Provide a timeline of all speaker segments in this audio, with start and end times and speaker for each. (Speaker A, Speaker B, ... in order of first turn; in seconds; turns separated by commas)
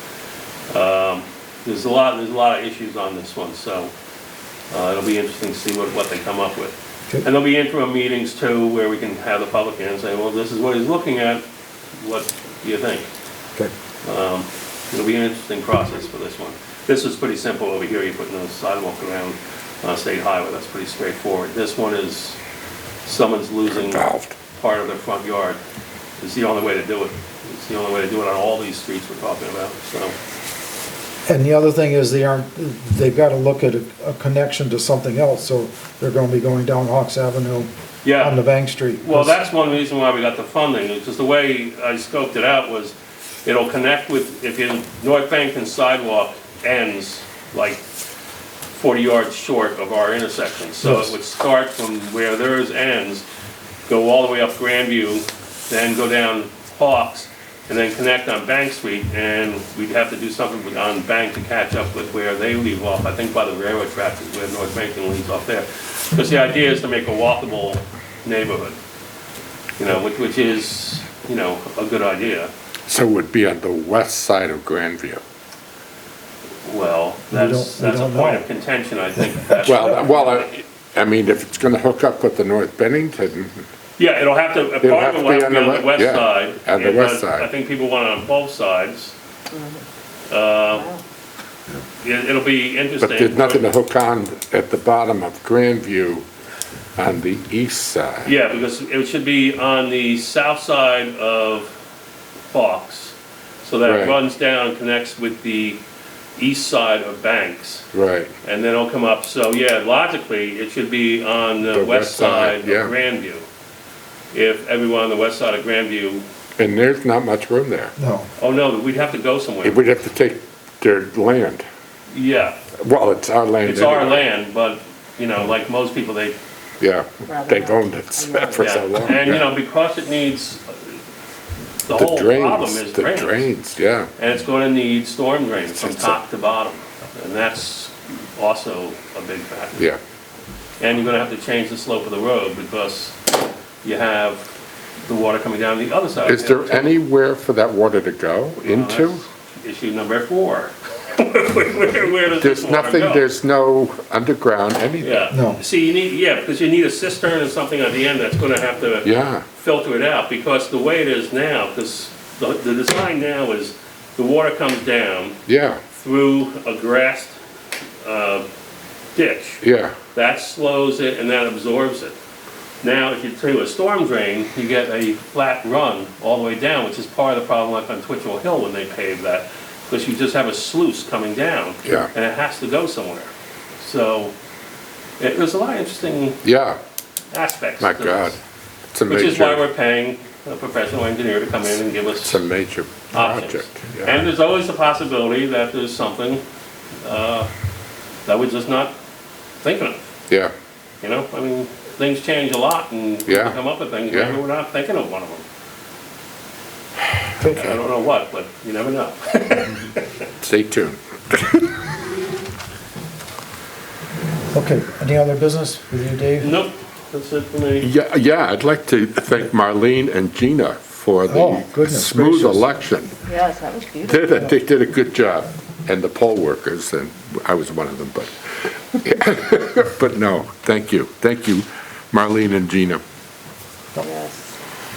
Speaker A: 0.7-3.9, Speaker A: 4.7-11.4, Speaker A: 12.0-13.1, Speaker A: 14.0-22.4, Speaker A: 23.0-25.6, Speaker B: 23.7-24.3, Speaker A: 26.2-30.1, Speaker C: 31.2-39.4, Speaker A: 38.0-38.4, Speaker A: 39.0-47.8, Speaker A: 48.7-53.2, Speaker C: 50.8-51.1, Speaker A: 53.9-68.8, Speaker A: 69.8-72.5, Speaker B: 72.9-75.2, Speaker A: 76.6-80.5, Speaker C: 77.3-78.4, Speaker C: 79.4-79.8, Speaker B: 79.7-83.6, Speaker A: 84.0-89.1, Speaker B: 84.8-87.5, Speaker A: 90.3-90.9, Speaker A: 92.0-93.7, Speaker B: 93.0-96.2, Speaker B: 97.0-98.3, Speaker A: 98.2-101.7, Speaker A: 102.5-105.8, Speaker B: 103.8-104.2, Speaker A: 106.4-107.9, Speaker B: 107.9-108.3, Speaker A: 108.4-113.5, Speaker B: 111.7-112.9, Speaker A: 114.3-116.2, Speaker B: 116.6-117.9, Speaker C: 118.0-118.3, Speaker A: 118.4-119.8, Speaker B: 119.6-121.6, Speaker A: 122.1-122.6, Speaker B: 122.8-124.2, Speaker A: 123.6-126.3, Speaker B: 126.8-129.5, Speaker D: 127.3-128.7, Speaker A: 128.6-130.9, Speaker A: 131.8-133.5, Speaker B: 131.9-134.1, Speaker A: 134.2-139.9, Speaker B: 135.7-136.2, Speaker A: 140.8-143.3, Speaker A: 143.8-144.4, Speaker A: 145.1-147.0, Speaker B: 146.2-149.2, Speaker A: 148.6-153.2, Speaker B: 152.4-155.2, Speaker A: 155.0-167.3, Speaker C: 155.3-155.6, Speaker B: 159.0-159.4, Speaker B: 165.5-165.8, Speaker A: 168.0-168.4, Speaker A: 169.1-169.6, Speaker B: 169.6-169.9, Speaker A: 170.1-172.1, Speaker A: 172.8-184.3, Speaker B: 181.8-182.1, Speaker A: 185.2-186.4, Speaker B: 186.4-186.8, Speaker A: 187.3-188.4, Speaker B: 187.8-188.4, Speaker B: 188.9-189.6, Speaker A: 189.1-192.4, Speaker B: 192.2-194.3, Speaker A: 193.1-196.4, Speaker A: 197.0-197.5, Speaker A: 198.2-198.9, Speaker A: 199.6-200.1, Speaker A: 201.0-205.4, Speaker B: 203.3-204.4, Speaker C: 207.4-207.8, Speaker A: 207.5-210.0, Speaker B: 210.4-211.7, Speaker C: 214.5-216.6, Speaker A: 216.4-217.9, Speaker B: 217.8-223.2, Speaker C: 221.3-222.7, Speaker D: 223.2-224.4, Speaker B: 224.0-228.3, Speaker B: 228.9-233.0, Speaker D: 233.9-234.4